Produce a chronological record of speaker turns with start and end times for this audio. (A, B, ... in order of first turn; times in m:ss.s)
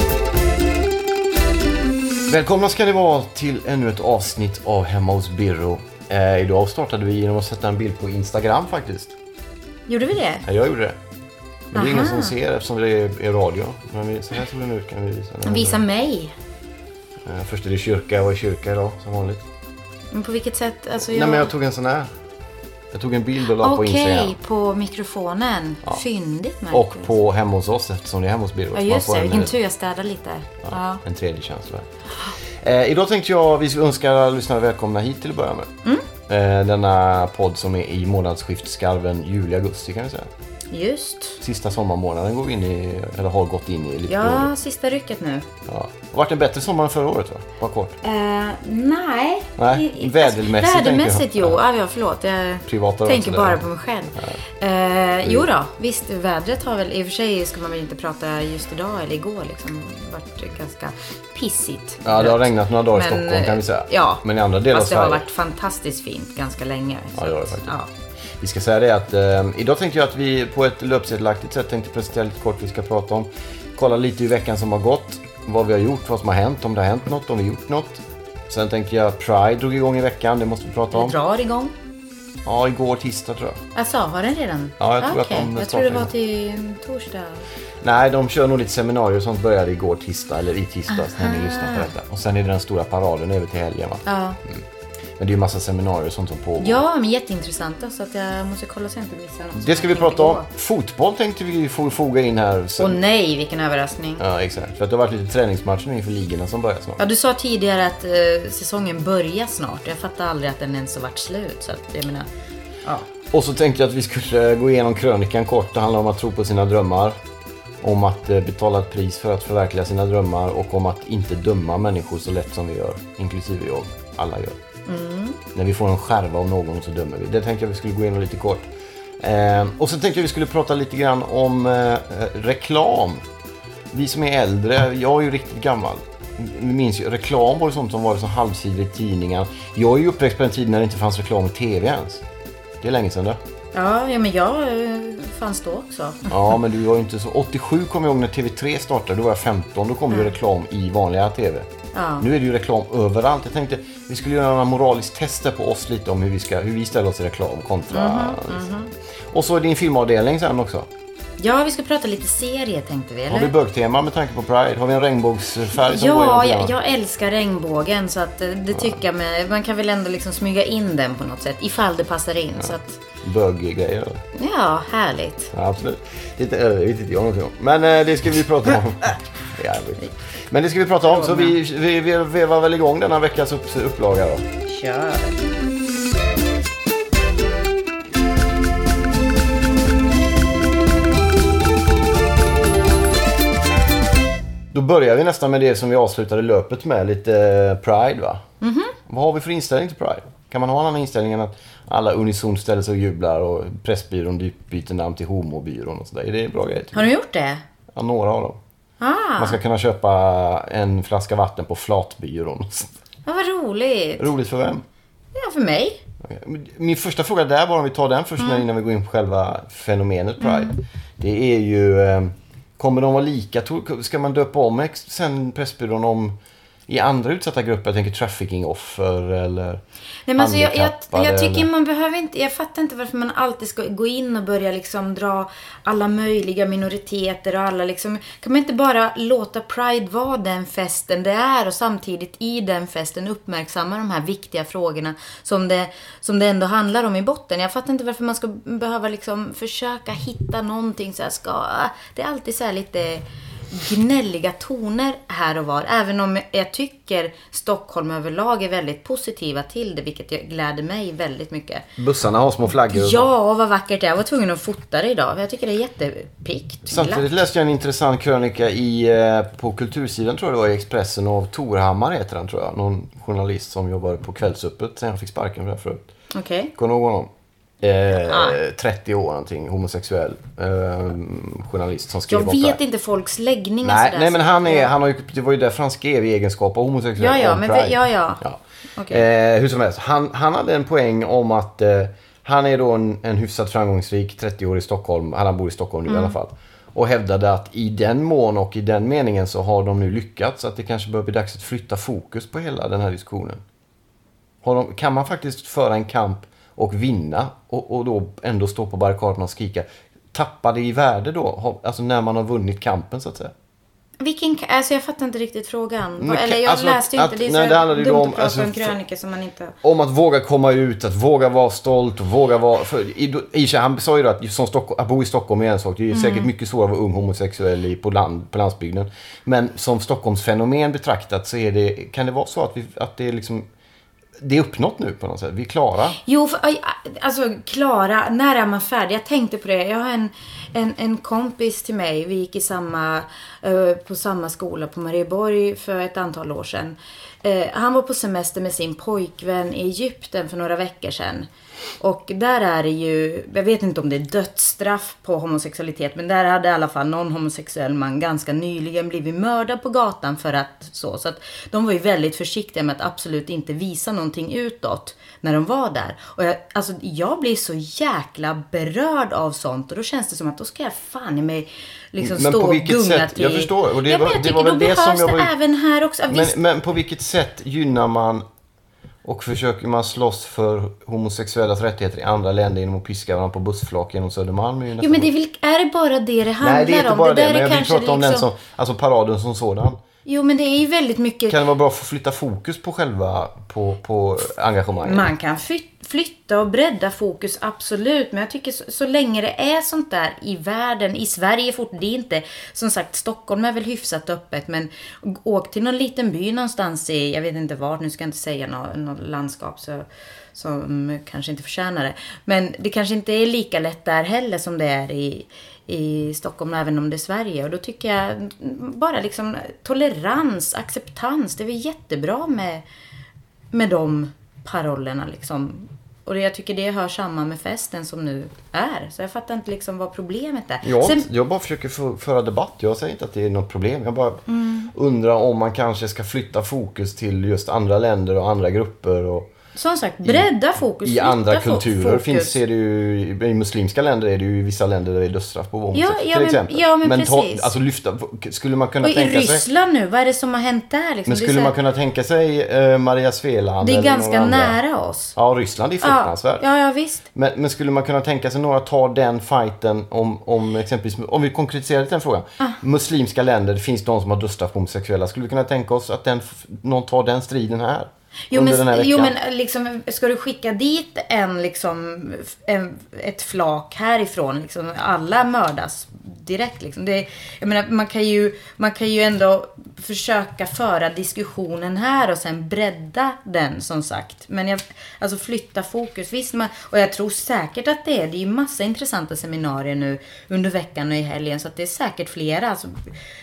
0:02.3-0:09.2 A
0:09.9-0:10.4 B
0:10.4-0:11.0 A
0:11.7-0:15.8 A
0:11.7-0:12.4 B
0:15.4-0:16.3 B
0:17.2-0:19.4 A
0:20.1-0:21.5 B
0:21.1-0:22.1 A
0:22.9-0:24.4 A
0:23.6-0:27.1 B
0:26.7-0:29.5 A
0:28.7-0:31.0 B
0:30.6-0:35.7 A
0:36.3-0:40.3 A
0:40.7-0:41.4 B
0:41.4-0:44.5 A
0:44.1-0:45.5 B
0:45.7-0:48.0 A
0:48.0-1:07.9 B
0:49.6-0:51.6 A
0:52.7-0:53.6 A
1:02.0-1:05.2 A
1:07.2-1:07.7 A
1:08.4-1:21.2 A
1:20.9-1:21.7 B
1:22.4-1:23.6 A
1:23.8-1:27.4 B
1:24.8-1:26.1 A
1:27.8-1:34.7 A
1:30.9-1:31.9 B
1:34.0-1:34.4 B
1:35.2-1:36.8 A
1:36.6-1:40.5 B
1:39.6-1:43.0 A
1:42.8-1:44.2 B
1:44.2-1:47.0 A
1:47.0-1:52.3 B
1:53.3-1:57.2 A
1:57.8-2:04.6 A
2:04.9-2:05.4 B
2:05.5-2:13.2 A
2:13.9-2:22.2 A
2:22.8-2:23.4 A
2:23.7-2:26.4 B
2:26.3-2:31.7 A
2:30.1-2:30.4 B
2:31.9-2:32.2 B
2:32.2-2:38.7 A
2:37.9-2:38.9 B
2:39.3-2:40.9 A
2:41.4-2:43.5 B
2:43.3-2:46.7 A
2:45.8-2:53.0 B
2:53.2-2:54.2 A
2:54.3-2:55.5 B
2:55.5-3:04.4 A
3:01.0-3:01.6 B
3:04.7-3:05.3 B
3:14.7-3:18.4 A
3:18.6-3:19.0 B
3:19.0-3:27.1 A
3:26.9-3:27.6 B
3:27.9-3:28.6 A
3:29.0-3:29.6 B
3:29.4-3:32.9 A
3:33.2-3:34.3 B
3:34.2-3:34.8 A
3:35.3-3:36.0 B
3:36.2-3:46.4 A
3:38.4-3:38.6 B
3:40.4-3:40.7 B
3:46.9-3:49.8 A
3:50.3-4:21.9 B
3:50.3-3:51.7 A
4:22.0-4:23.3 A
4:22.7-4:27.3 B
4:26.9-4:36.1 A
4:36.3-4:36.7 B
4:36.8-4:42.8 A
4:38.2-4:38.6 B
4:42.3-4:44.9 B
4:43.8-5:03.6 A
4:47.2-4:48.4 B
4:49.0-4:49.2 B
4:56.1-4:56.3 B
5:04.6-5:13.5 A
5:14.2-5:19.8 B
5:16.2-5:19.0 A
5:19.8-5:33.6 A
5:26.1-5:26.5 B
5:34.4-5:36.2 A
5:36.2-5:51.5 B
5:52.0-6:16.6 B
6:12.2-6:15.5 A
6:16.3-6:18.4 A
6:19.2-6:25.3 A
6:25.0-6:28.5 B
6:26.6-6:30.0 A
6:30.2-6:31.6 B
6:31.5-6:35.3 A
6:35.0-7:02.8 B
7:03.7-7:11.2 B
7:10.8-7:19.5 A
7:14.5-7:14.9 B
7:19.8-7:22.6 B
7:20.2-7:29.6 A
7:25.9-7:27.7 B
7:29.0-7:31.7 B
7:31.2-7:34.8 A
7:33.8-7:35.4 B
7:35.4-7:36.6 A
7:36.0-7:37.2 B
7:37.3-7:49.3 A
7:48.5-8:13.1 B